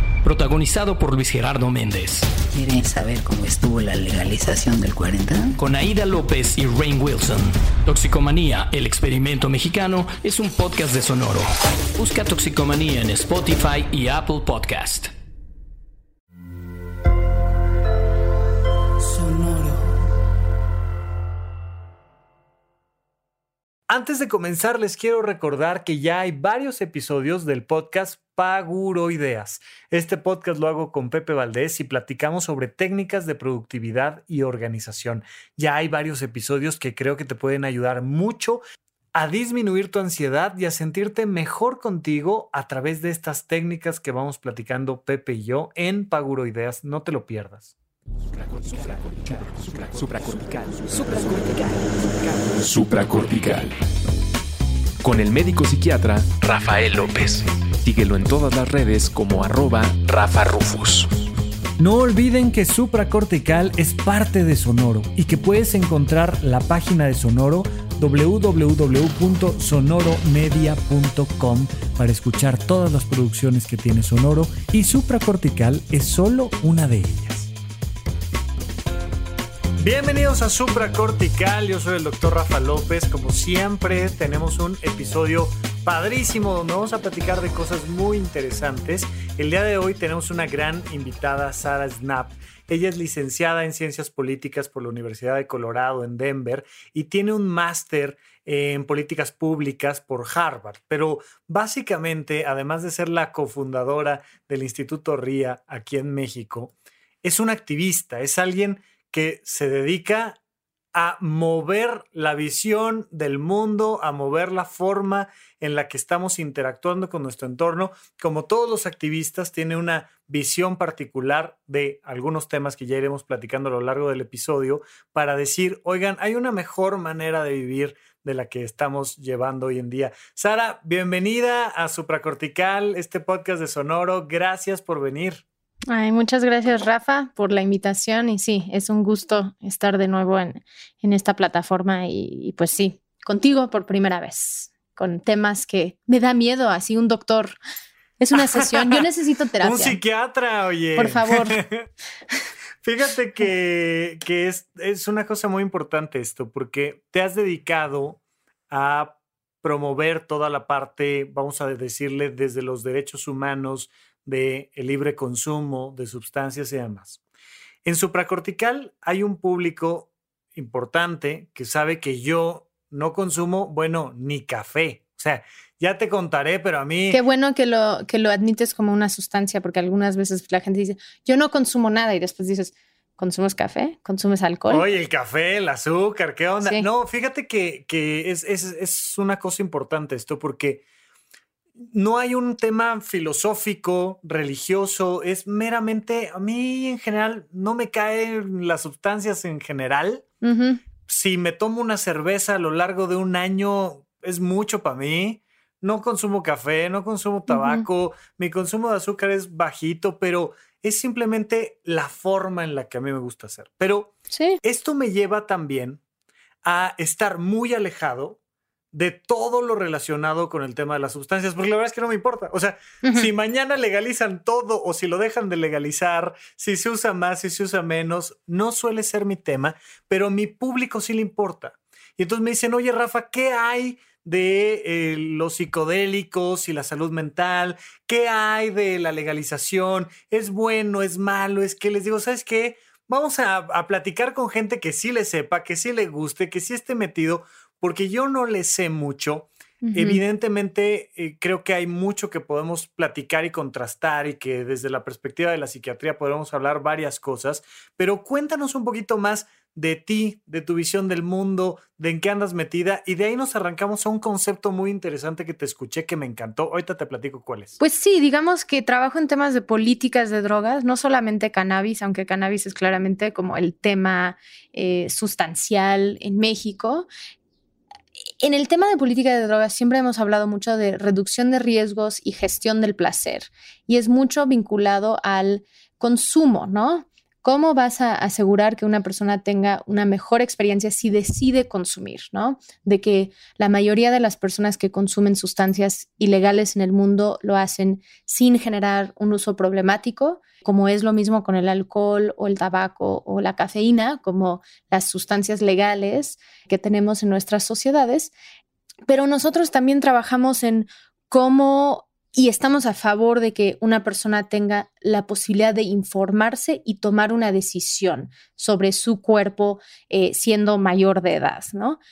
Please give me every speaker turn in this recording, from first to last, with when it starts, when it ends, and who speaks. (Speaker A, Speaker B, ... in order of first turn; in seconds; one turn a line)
Speaker A: 0.2-2.3
Speaker B: 2.5-5.5
Speaker A: 5.6-15.1
Speaker B: 19.1-19.7
Speaker C: 23.9-38.6
Speaker C: 39.1-47.7
Speaker D: 48.4-53.7
Speaker D: 55.0-61.3
Speaker C: 61.8-77.5
Speaker C: 79.8-110.4
Speaker C: 110.9-135.4
Speaker E: 135.9-147.6
Speaker E: 148.2-150.0
Speaker C: 148.3-149.0
Speaker C: 149.6-151.9
Speaker E: 151.0-151.6
Speaker C: 152.8-167.2
Speaker C: 167.8-177.2
Speaker E: 177.1-184.9
Speaker C: 184.7-190.8
Speaker C: 191.8-200.2
Speaker E: 200.4-200.8
Speaker C: 201.1-216.0
Speaker E: 207.5-207.9
Speaker E: 214.3-214.6
Speaker C: 216.6-218.4
Speaker C: 218.9-267.8
Speaker E: 223.0-223.3
Speaker E: 249.8-250.2
Speaker E: 267.8-277.1
Speaker E: 278.4-308.3
Speaker E: 309.1-322.0